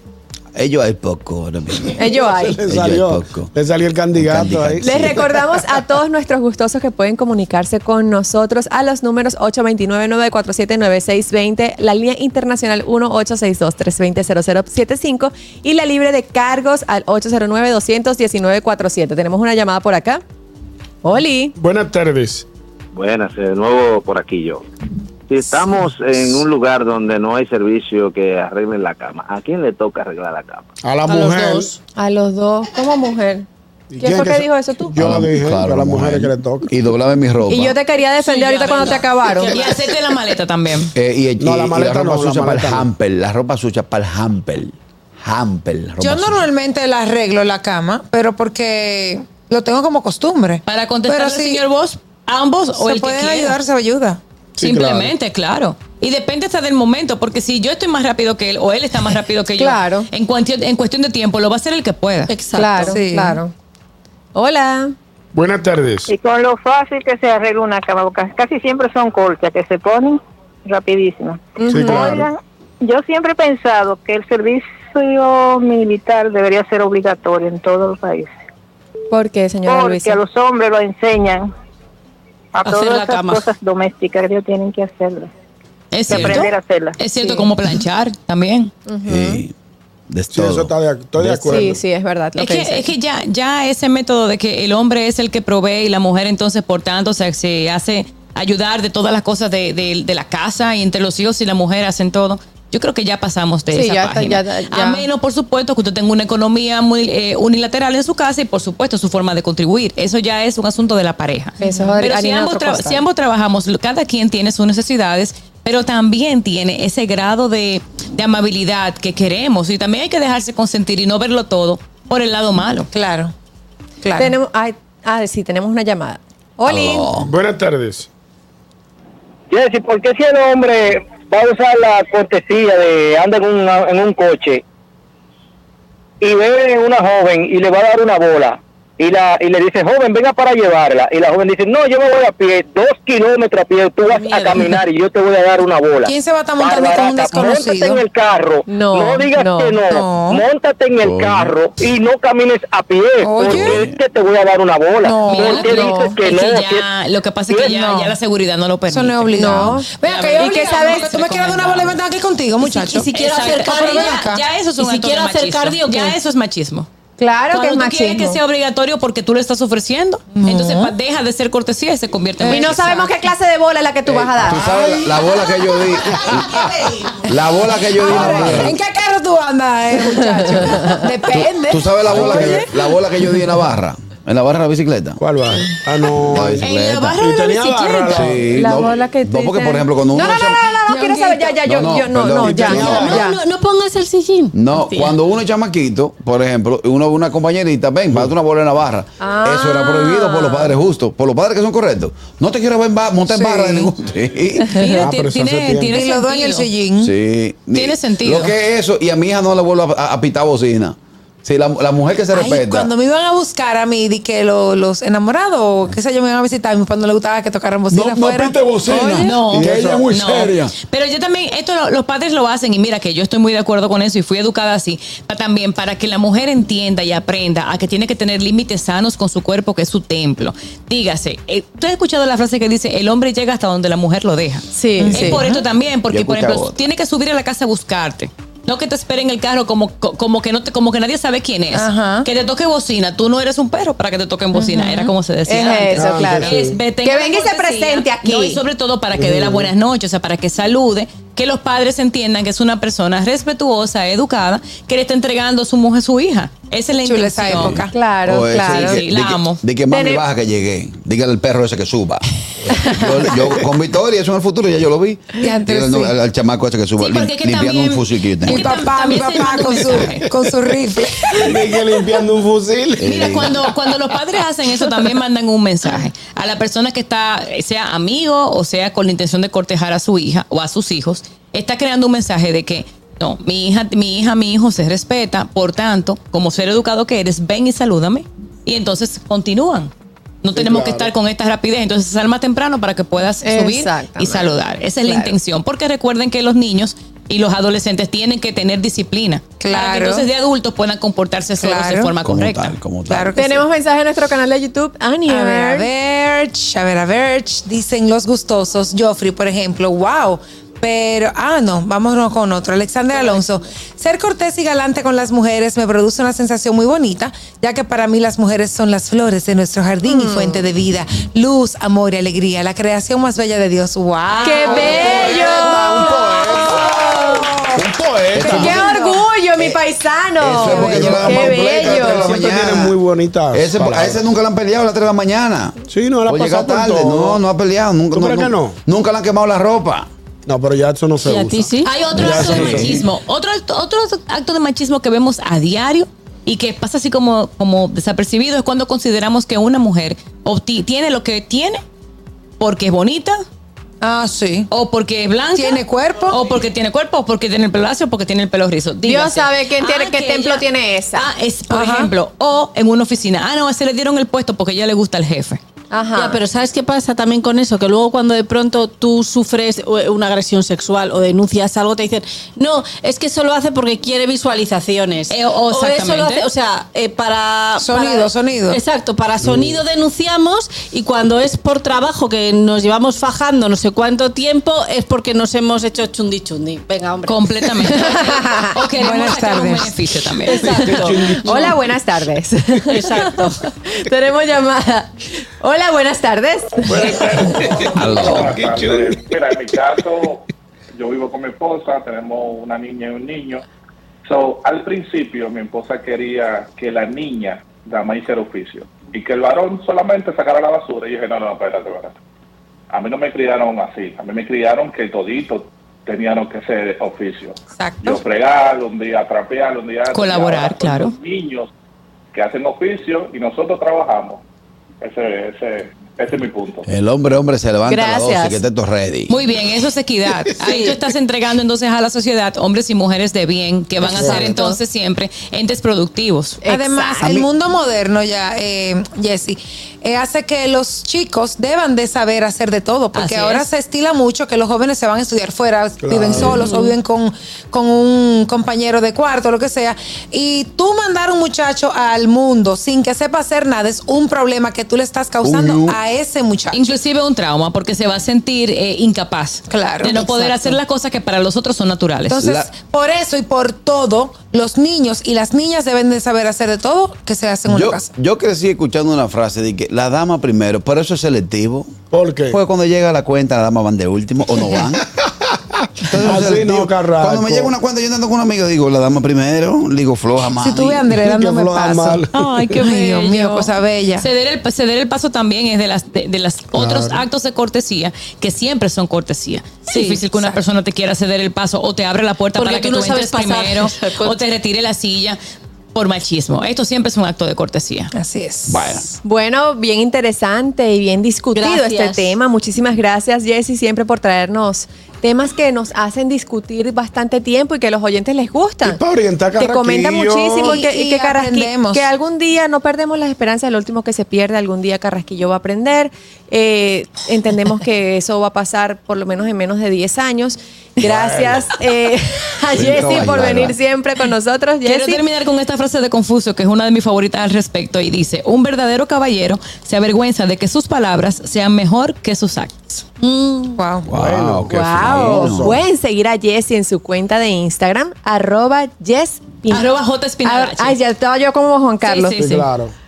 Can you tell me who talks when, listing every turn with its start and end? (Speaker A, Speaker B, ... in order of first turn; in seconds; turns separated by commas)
Speaker A: 0.6-2.1, Speaker B: 2.0-2.7, Speaker C: 2.1-5.4, Speaker A: 2.7-3.5, Speaker A: 4.2-5.3, Speaker B: 4.8-20.2, Speaker B: 21.0-21.5, Speaker C: 21.6-22.5, Speaker D: 22.9-24.6, Speaker D: 25.3-30.7, Speaker C: 30.8-31.7, Speaker E: 31.1-31.8, Speaker B: 32.0-33.5, Speaker C: 33.9-36.7, Speaker B: 34.0-34.9, Speaker A: 35.0-37.8, Speaker B: 37.5-39.6, Speaker F: 38.2-40.9, Speaker E: 38.5-39.8, Speaker A: 41.0-46.4, Speaker C: 41.4-42.9, Speaker G: 46.0-51.6, Speaker F: 50.7-53.6, Speaker G: 52.8-54.2, Speaker C: 54.6-55.1, Speaker F: 54.6-62.3, Speaker B: 59.6-60.1, Speaker E: 62.3-63.0, Speaker B: 62.5-63.5, Speaker G: 62.8-63.4, Speaker B: 64.3-65.0, Speaker C: 65.3-66.1, Speaker H: 66.1-78.3, Speaker B: 71.6-72.2, Speaker C: 71.7-72.3, Speaker B: 79.1-80.2, Speaker H: 79.7-81.5, Speaker H: 82.5-85.3, Speaker E: 82.7-83.5, Speaker F: 85.9-88.7, Speaker H: 86.1-87.0, Speaker A: 86.1-86.4, Speaker B: 88.9-89.4, Speaker A: 89.1-89.5, Speaker A: 90.1-91.8, Speaker C: 90.3-91.8, Speaker B: 91.5-92.9, Speaker F: 92.4-122.9, Speaker B: 103.7-105.0, Speaker B: 111.6-113.0, Speaker G: 122.9-123.3, Speaker G: 124.0-124.3, Speaker B: 124.2-127.1, Speaker A: 126.7-127.3, Speaker C: 127.1-128.1, Speaker I: 129.5-134.6, Speaker I: 136.2-156.8, Speaker E: 144.1-144.8, Speaker G: 146.1-148.0, Speaker B: 148.7-149.8, Speaker G: 149.8-150.4, Speaker A: 151.0-151.5, Speaker G: 153.2-153.8, Speaker A: 153.4-153.9, Speaker G: 155.0-156.1, Speaker F: 155.3-162.0, Speaker B: 155.7-156.0, Speaker I: 157.5-157.8, Speaker G: 157.7-158.1, Speaker G: 158.9-164.4, Speaker B: 159.4-161.2, Speaker E: 162.6-166.2, Speaker F: 162.7-166.9, Speaker B: 167.2-168.4, Speaker F: 167.5-173.0, Speaker G: 170.4-170.9, Speaker G: 172.4-173.1, Speaker B: 172.5-174.6, Speaker A: 174.1-176.6, Speaker C: 174.5-175.1, Speaker G: 175.2-182.9, Speaker C: 176.3-176.6, Speaker A: 177.3-178.7, Speaker C: 178.0-178.8, Speaker B: 180.1-181.0, Speaker A: 181.3-185.2, Speaker C: 182.1-182.6, Speaker C: 185.2-186.7, Speaker A: 186.3-187.2, Speaker F: 186.6-188.4, Speaker C: 187.2-188.7, Speaker A: 188.1-190.8, Speaker B: 188.5-193.4, Speaker G: 190.9-191.6, Speaker A: 191.6-193.2, Speaker C: 192.4-193.2, Speaker E: 192.9-195.2, Speaker A: 194.5-204.9, Speaker B: 199.2-200.8, Speaker G: 203.3-203.9, Speaker F: 204.8-206.7, Speaker C: 204.8-206.1, Speaker G: 205.8-207.1, Speaker A: 207.0-212.9, Speaker F: 207.7-208.5, Speaker G: 212.3-219.5, Speaker A: 217.9-220.7, Speaker C: 218.2-220.7, Speaker F: 219.2-257.8, Speaker B: 234.8-235.5, Speaker G: 235.0-235.6, Speaker A: 236.1-236.8, Speaker G: 241.7-242.3, Speaker G: 244.6-245.1, Speaker B: 245.5-248.6, Speaker C: 246.0-246.8, Speaker C: 249.1-249.7, Speaker G: 257.0-258.8, Speaker A: 257.5-268.6, Speaker B: 257.9-259.0, Speaker F: 258.8-259.6, Speaker B: 259.9-260.2, Speaker G: 265.4-266.1, Speaker F: 267.0-270.3, Speaker G: 268.4-271.5, Speaker C: 271.4-273.4, Speaker A: 273.0-273.6, Speaker F: 273.0-289.9, Speaker F: 290.4-302.8, Speaker C: 290.5-291.1, Speaker B: 293.4-295.3, Speaker G: 299.6-300.3, Speaker G: 301.6-302.1, Speaker A: 302.2-303.3, Speaker G: 303.1-303.6, Speaker B: 303.4-305.9, Speaker G: 305.3-327.8, Speaker B: 320.0-320.7, Speaker B: 324.4-327.5, Speaker C: 324.7-328.7, Speaker A: 325.0-325.4, Speaker A: 328.3-328.8, Speaker G: 328.4-329.3, Speaker B: 328.4-332.4, Speaker A: 330.4-333.0, Speaker C: 330.6-334.2, Speaker A: 333.5-340.1, Speaker C: 335.9-337.4, Speaker C: 338.1-338.8, Speaker C: 340.5-343.0, Speaker E: 341.2-342.7, Speaker F: 341.8-351.8, Speaker A: 342.2-343.0, Speaker F: 352.6-353.4, Speaker G: 354.0-354.7, Speaker F: 354.7-365.6, Speaker G: 355.5-356.4, Speaker B: 359.1-361.2, Speaker G: 361.7-362.1, Speaker B: 365.9-366.4, Speaker E: 366.1-387.4, Speaker F: 375.3-376.5, Speaker G: 377.8-378.8, Speaker C: 379.4-379.8, Speaker F: 387.3-390.7, Speaker B: 387.9-388.7, Speaker G: 388.9-390.0, Speaker E: 390.4-391.8, Speaker B: 390.6-397.7, Speaker C: 390.7-391.7, Speaker E: 392.9-393.7, Speaker C: 396.9-397.7, Speaker J: 396.9-403.6, Speaker A: 397.8-399.2, Speaker J: 404.2-412.2, Speaker J: 412.9-421.7, Speaker G: 417.8-418.2, Speaker F: 420.1-421.1, Speaker J: 422.3-424.4, Speaker J: 425.0-426.9, Speaker A: 426.9-429.4, Speaker B: 427.9-428.6, Speaker F: 429.3-436.6, Speaker E: 430.6-431.0, Speaker C: 434.1-434.6, Speaker B: 434.2-434.8, Speaker B: 436.6-437.4, Speaker G: 436.7-456.8, Speaker F: 443.1-443.7, Speaker C: 446.0-446.8, Speaker E: 446.6-446.9, Speaker A: 455.4-456.0, Speaker F: 456.7-462.4, Speaker G: 459.7-460.8, Speaker G: 462.3-468.1, Speaker A: 462.4-462.7, Speaker A: 467.7-472.0, Speaker C: 472.1-472.6, Speaker A: 472.5-475.1, Speaker A: 476.0-481.1, Speaker C: 476.1-477.7, Speaker G: 480.5-484.3, Speaker C: 481.2-482.7, Speaker F: 482.3-495.4, Speaker C: 486.8-487.3, Speaker E: 489.9-490.2, Speaker G: 490.0-490.6, Speaker E: 492.6-494.4, Speaker F: 495.9-498.1, Speaker G: 498.1-499.0, Speaker A: 498.7-499.1, Speaker B: 499.2-509.0, Speaker E: 501.6-502.3, Speaker C: 508.8-510.8, Speaker B: 509.6-525.2, Speaker G: 510.6-512.0, Speaker C: 521.0-521.7, Speaker A: 522.7-523.8, Speaker F: 524.9-533.0, Speaker E: 533.2-533.8, Speaker G: 533.8-534.1, Speaker A: 534.1-535.8, Speaker C: 534.1-535.8, Speaker B: 534.7-539.9, Speaker F: 539.7-541.0, Speaker B: 540.4-542.4, Speaker F: 542.0-542.7, Speaker C: 542.4-542.9